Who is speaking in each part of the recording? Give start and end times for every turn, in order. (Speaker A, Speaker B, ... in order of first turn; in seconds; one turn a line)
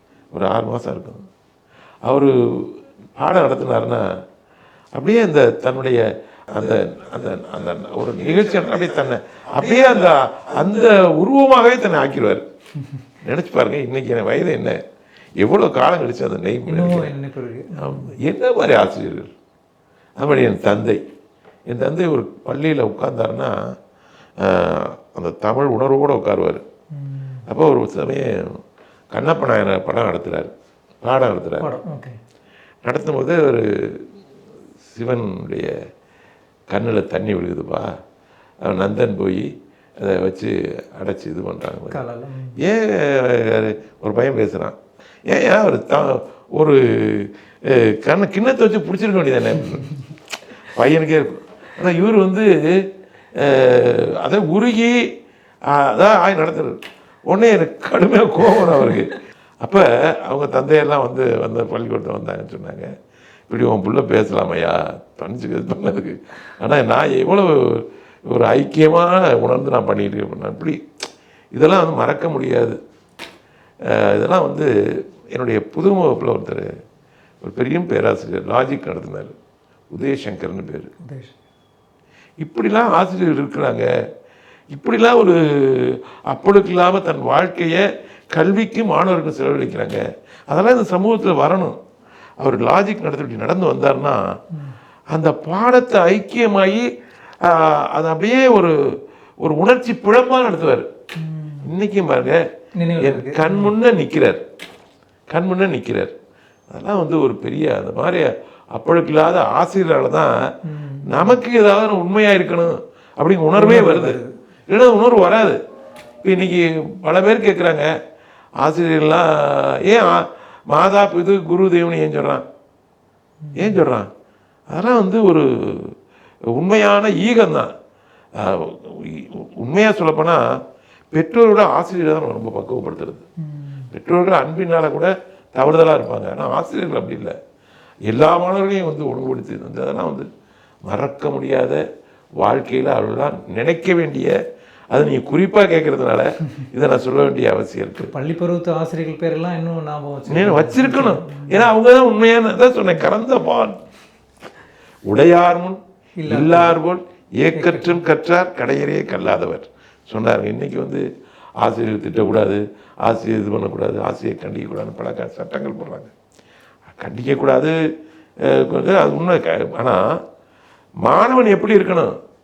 Speaker A: 0.3-1.3
Speaker A: 2.0-4.1
Speaker A: 4.9-12.4
Speaker A: 13.2-14.8
Speaker A: 15.4-17.1
Speaker B: 16.7-18.1
Speaker A: 17.8-19.3
Speaker A: 20.2-21.0
Speaker A: 21.7-23.6
Speaker A: 24.4-26.6
Speaker B: 26.9-27.4
Speaker A: 27.5-28.6
Speaker A: 29.1-31.7
Speaker B: 31.6-32.1
Speaker A: 32.8-34.1
Speaker A: 34.9-35.7
Speaker A: 36.7-37.9
Speaker A: 38.6-42.0
Speaker B: 41.9-42.6
Speaker A: 42.6-50.0
Speaker A: 50.7-55.0
Speaker A: 55.6-62.9
Speaker A: 63.5-70.8
Speaker A: 71.5-72.8
Speaker A: 73.8-74.7
Speaker A: 75.3-76.7
Speaker A: 77.4-79.3
Speaker A: 79.9-80.9
Speaker B: 81.0-81.3
Speaker A: 82.4-83.9
Speaker A: 84.7-91.8
Speaker A: 92.4-94.3
Speaker A: 95.1-96.9
Speaker A: 97.4-100.9
Speaker B: 101.2-101.7
Speaker A: 101.6-102.4
Speaker B: 102.8-103.7
Speaker A: 103.0-104.4
Speaker A: 105.3-106.1
Speaker A: 106.7-110.5
Speaker B: 110.6-111.4
Speaker A: 111.0-114.2
Speaker B: 113.5-114.3
Speaker A: 114.7-115.6
Speaker A: 116.2-117.9
Speaker A: 118.6-122.4
Speaker B: 123.4-123.8
Speaker A: 123.5-124.1
Speaker A: 124.7-126.0
Speaker A: 126.5-127.7
Speaker A: 128.3-130.4
Speaker A: 131.1-133.2
Speaker B: 133.4-133.9
Speaker A: 133.9-137.3
Speaker A: 138.1-140.3
Speaker A: 140.8-141.8
Speaker A: 142.4-144.4
Speaker A: 144.9-148.1
Speaker B: 148.1-151.7
Speaker A: 150.3-153.8
Speaker A: 155.1-161.1
Speaker B: 156.2-156.8
Speaker B: 157.5-158.0
Speaker A: 161.6-166.1
Speaker A: 166.8-167.8
Speaker A: 168.4-170.1
Speaker A: 171.0-172.1